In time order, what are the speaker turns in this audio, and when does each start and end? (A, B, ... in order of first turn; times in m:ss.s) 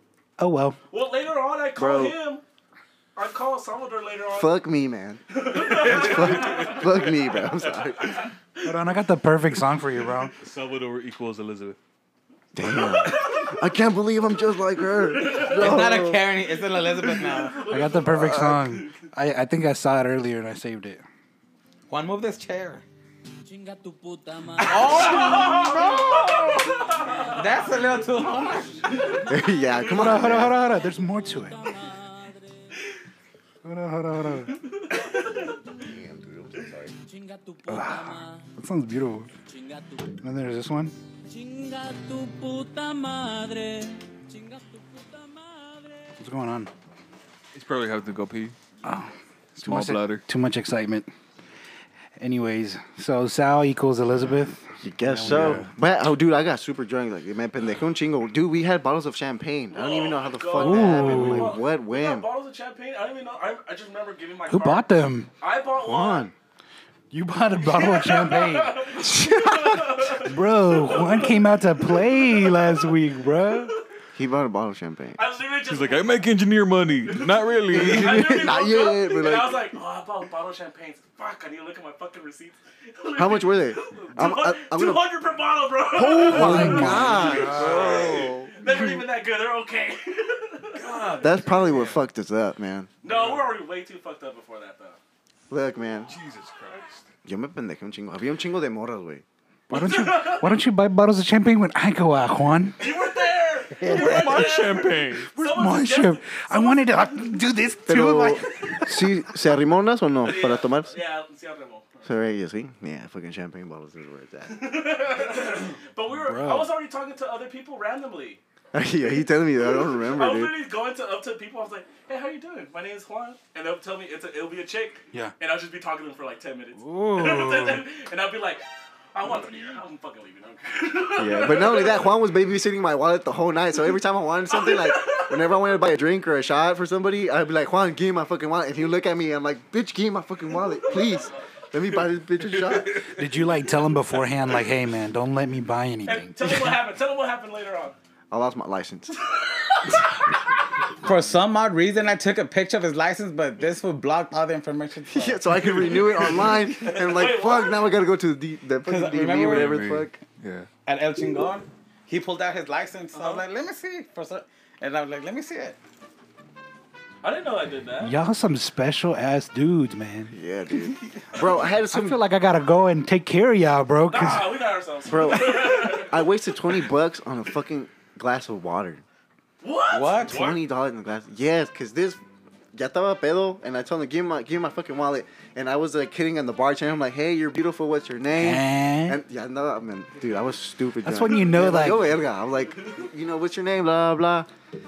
0:00.4-0:00.8 A
0:00.9-0:02.4 B
0:01.8-0:02.2 C
0:03.2-0:04.5 B
0:04.3-0:08.3 C
0:05.3-0:08.7 B
0:05.6-0:07.1 D
0:08.6-0:10.4 A
0:10.4-0:11.8 D
0:12.5-0:16.3 C
0:12.6-0:13.7 B
0:14.8-0:16.1 B
0:15.3-0:17.6 E
0:16.6-0:19.0 B
0:17.7-0:21.0 A
0:18.1-0:18.6 C
0:21.9-0:22.8 E
0:23.4-0:25.5 F
0:24.6-0:26.6 E
0:24.7-0:27.6 B
0:27.2-0:29.0 E
0:28.9-0:29.3 B
0:29.3-0:30.6 C
0:29.9-0:31.6 A
0:30.8-0:32.6 F
0:33.6-0:34.6 A
0:34.5-0:35.6 B
0:35.8-0:36.9 C
0:37.0-0:38.5 F
0:37.7-0:39.3 A
0:39.5-0:40.2 F
0:40.2-0:40.9 A
0:41.3-0:46.1 F
0:46.2-0:46.7 A
0:47.5-0:48.6 D
0:48.8-0:51.1 A
0:49.6-0:50.2 D
0:52.2-0:55.7 A
0:54.8-1:02.3 C
0:59.7-1:04.9 B
1:00.6-1:01.6 A
1:04.5-1:05.3 A
1:05.4-1:06.3 B
1:05.8-1:06.3 C
1:07.1-1:09.0 A
1:07.5-1:12.9 B
1:09.0-1:10.1 C
1:10.2-1:13.8 A
1:14.1-1:15.2 C
1:15.2-1:16.3 B
1:15.6-1:18.5 D
1:17.0-1:31.6 B
1:17.7-1:19.8 C
1:23.2-1:25.1 C
1:25.9-1:28.6 C
1:26.2-1:28.5 D
1:26.3-1:27.2 A
1:30.7-1:32.0 D
1:31.2-1:32.9 C
1:33.0-1:35.0 B
1:33.0-1:33.5 D
1:35.5-1:36.1 C
1:36.1-1:37.1 D
1:37.2-1:39.2 C
1:39.7-1:42.8 A
1:39.7-1:40.6 B
1:42.8-1:47.4 B
1:43.8-1:44.6 E
1:43.8-1:45.4 D
1:45.4-1:49.1 A
1:47.9-1:51.0 C
1:48.4-1:49.0 B
1:50.2-1:52.1 B
1:52.0-1:54.8 C
1:54.5-1:58.4 B
1:56.1-1:56.7 A
1:58.7-2:00.5 C
1:59.6-2:08.6 B
2:06.8-2:07.8 A
2:09.1-2:12.1 B
2:11.2-2:23.1 C
2:14.5-2:15.5 B
2:20.8-2:21.4 B
2:23.1-2:26.8 A
2:26.1-2:28.0 B
2:28.3-2:29.3 C
2:29.2-2:30.2 B
2:31.0-2:36.5 E
2:35.1-2:40.2 C
2:36.7-2:37.8 B
2:38.8-2:39.8 E
2:39.3-2:40.7 D
2:40.9-2:45.8 E
2:43.1-2:43.5 B
2:47.2-2:48.2 B
2:48.0-2:50.3 A
2:50.3-2:52.2 C
2:51.9-2:54.6 A
2:54.1-2:56.3 B
2:55.0-2:59.0 C
2:59.6-3:00.4 B
2:59.9-3:00.4 E
3:00.2-3:02.2 C
3:00.3-3:00.6 D
3:02.7-3:14.5 C
3:08.4-3:09.2 A
3:11.0-3:12.1 A